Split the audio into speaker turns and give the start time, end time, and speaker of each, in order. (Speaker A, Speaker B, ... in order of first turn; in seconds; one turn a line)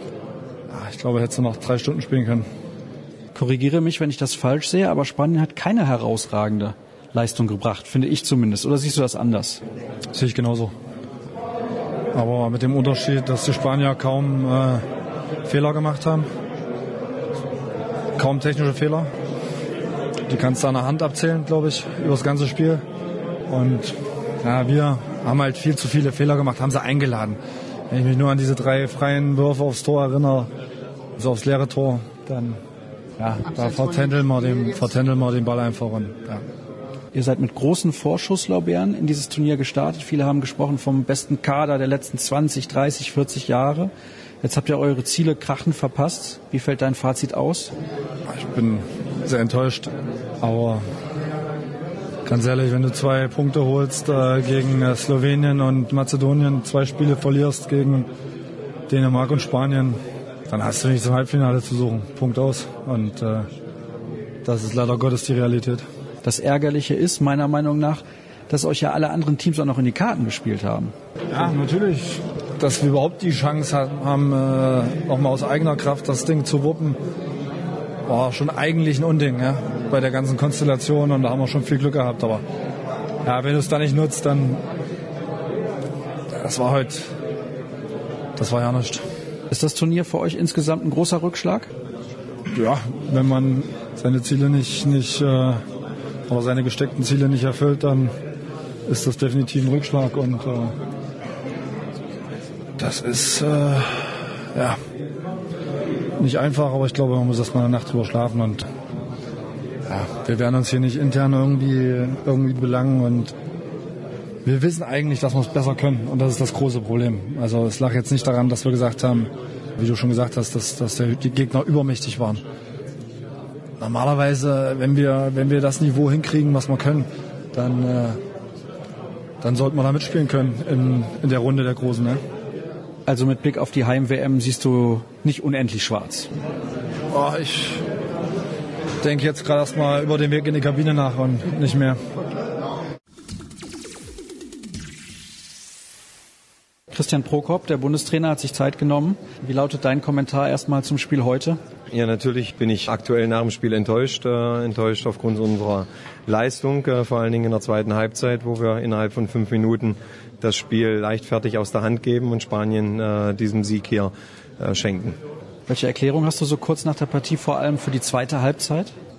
Speaker A: 0.7-2.4
Speaker B: 3.3-9.6
Speaker A: 10.1-10.7
Speaker A: 12.1-14.8
Speaker A: 15.4-16.3
Speaker A: 18.1-19.1
Speaker A: 20.3-22.8
Speaker A: 23.5-27.4
Speaker A: 27.9-30.5
Speaker A: 31.2-32.6
Speaker A: 33.2-36.4
Speaker B: 37.1-43.9
Speaker B: 44.4-47.7
Speaker A: 48.3-49.9
Speaker A: 50.4-50.8
Speaker A: 52.2-58.1
Speaker A: 58.9-60.0
Speaker A: 60.5-63.5
Speaker A: 64.4-65.8
Speaker B: 66.2-70.9
Speaker A: 71.3-77.0
Speaker A: 78.1-82.4
Speaker A: 83.2-84.6
Speaker A: 86.3-87.0
Speaker A: 88.4-89.0
Speaker B: 89.5-91.7
Speaker A: 92.5-95.6
Speaker A: 96.3-98.1
Speaker A: 98.9-100.7
Speaker A: 102.8-104.8
Speaker A: 106.2-108.6
Speaker A: 109.8-113.3
Speaker A: 114.4-122.4
Speaker A: 123.8-128.2
Speaker A: 129.4-132.2
Speaker B: 133.1-136.3
Speaker A: 137.1-137.8
Speaker A: 139.0-142.0
Speaker B: 146.9-151.6
Speaker C: 151.9-165.2
Speaker B: 165.7-168.9